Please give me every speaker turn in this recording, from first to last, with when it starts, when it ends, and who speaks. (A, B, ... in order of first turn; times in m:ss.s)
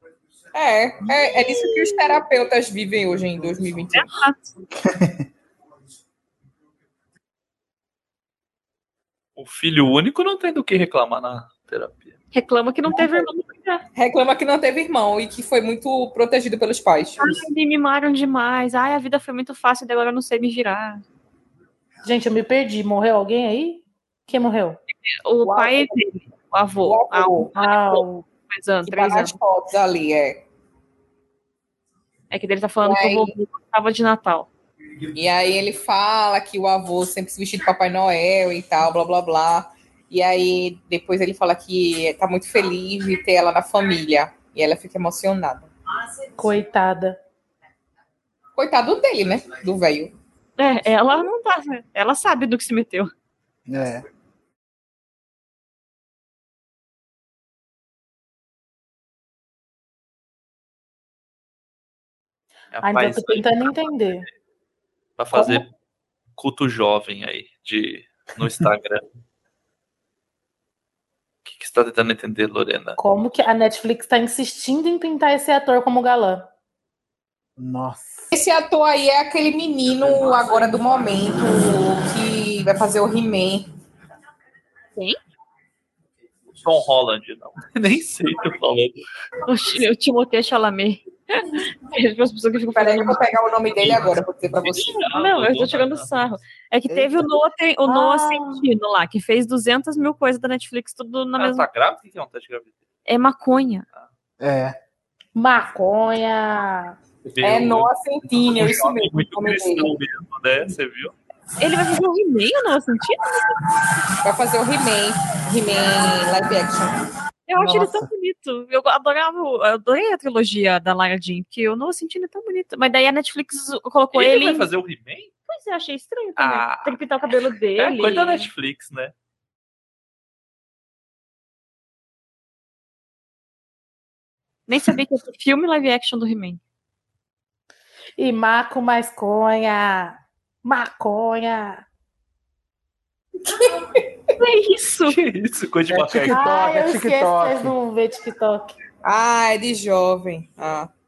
0:00.5-0:04.1 A
0:03.9-0:04.5 B
0:04.8-0:05.2 C
0:09.4-0:12.1 D
0:12.3-0:13.8 B
0:14.0-0:17.3 A
0:17.2-0:21.0 B
0:22.0-0:24.8 E
0:25.0-0:29.4 B
0:25.4-0:25.9 A
0:26.8-0:27.5 A
0:27.5-0:28.2 E
0:28.8-0:30.4 A
0:32.3-0:34.5 B
0:32.8-0:33.3 A
0:35.2-0:45.7 A
0:46.4-0:47.2 E
0:48.6-0:50.1 A
0:50.6-0:53.1 B
0:53.7-0:54.0 C
1:02.7-1:04.0 D
1:02.8-1:04.2 E
1:05.2-1:05.7 D
1:05.3-1:05.6 E
1:06.4-1:09.0 D
1:11.4-1:13.0 D
1:13.0-1:16.5 E
1:17.6-1:18.3 C
1:18.3-1:23.7 A
1:26.6-1:29.0 D
1:29.5-1:33.3 B
1:32.7-1:35.0 A
1:33.8-1:34.1 D
1:34.6-1:36.3 D
1:35.0-1:41.7 B
1:36.9-1:37.2 C
1:37.8-1:38.6 E
1:41.4-1:42.8 D
1:43.1-1:43.8 B
1:44.4-1:44.8 C
1:45.3-1:47.0 E
1:47.2-1:51.1 D
1:47.4-1:49.9 A
1:51.6-1:53.5 B
1:54.2-1:57.0 A
1:57.5-2:04.7 B
1:57.6-1:58.1 C
2:04.1-2:05.3 D
2:05.5-2:08.5 B
2:06.4-2:07.0 D
2:07.8-2:09.1 D
2:14.7-2:16.6 B
2:18.2-2:21.8 E
2:24.4-2:25.2 B
2:25.0-2:26.8 D
2:25.9-2:27.7 C
2:26.3-2:28.7 E
2:29.0-2:30.9 A